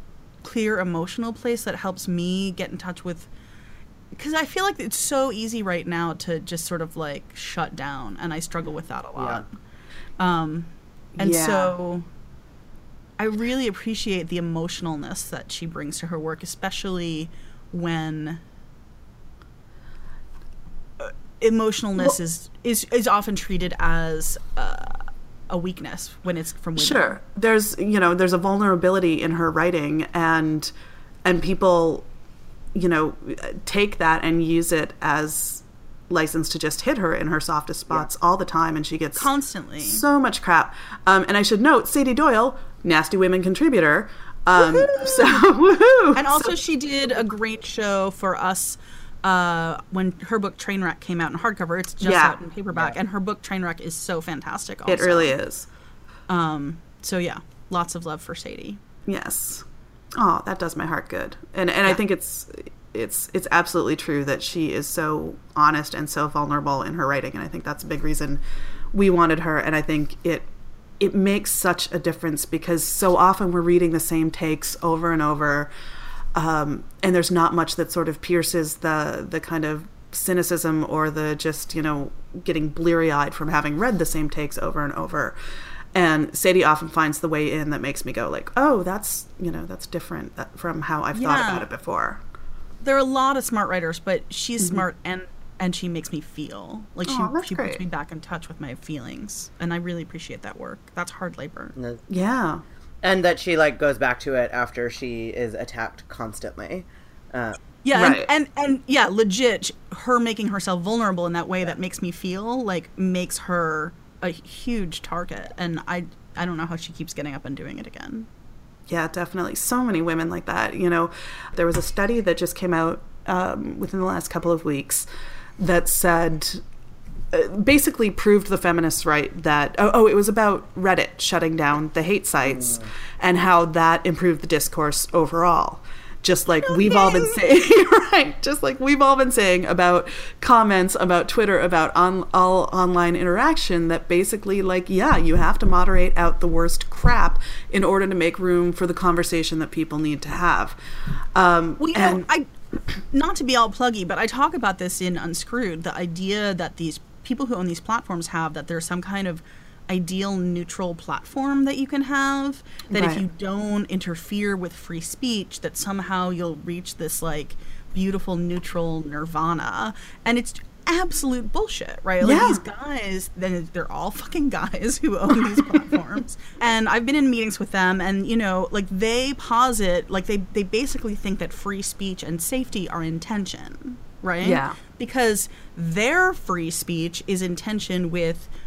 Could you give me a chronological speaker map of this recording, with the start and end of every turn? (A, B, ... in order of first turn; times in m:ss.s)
0:00.4-0:03.3 A
0:04.1-0:09.4 A
0:09.2-0:09.4 B
0:10.2-0:12.1 A
0:11.2-0:11.7 C
0:13.2-0:18.4 A
0:21.0-0:27.2 A
0:26.8-0:30.7 C
0:31.2-0:32.1 C
0:32.7-0:39.3 C
0:39.2-0:40.0 A
0:39.8-0:46.5 C
0:44.6-0:45.4 A
0:46.2-0:55.4 A
0:52.0-0:52.4 C
0:54.9-0:55.7 C
0:56.3-0:58.8 A
0:59.1-0:59.6 C
1:00.2-1:08.4 C
1:08.9-1:10.5 C
1:11.0-1:15.7 C
1:16.3-1:25.4 C
1:25.9-1:32.2 C
1:31.1-1:31.7 A
1:32.8-1:41.7 A
1:37.1-1:37.8 C
1:41.8-1:42.0 B
1:42.1-1:42.6 C
1:43.0-1:47.6 B
1:47.8-1:58.3 A
1:47.9-1:48.3 C
1:58.9-2:05.1 C
2:05.6-2:06.6 C
2:07.3-2:30.8 C
2:16.7-2:17.4 A
2:31.4-2:32.3 C
2:31.8-2:32.5 A
2:33.1-3:08.5 A
2:42.9-2:43.2 C
2:52.2-2:52.6 C
2:55.6-2:56.0 C
3:04.4-3:04.8 C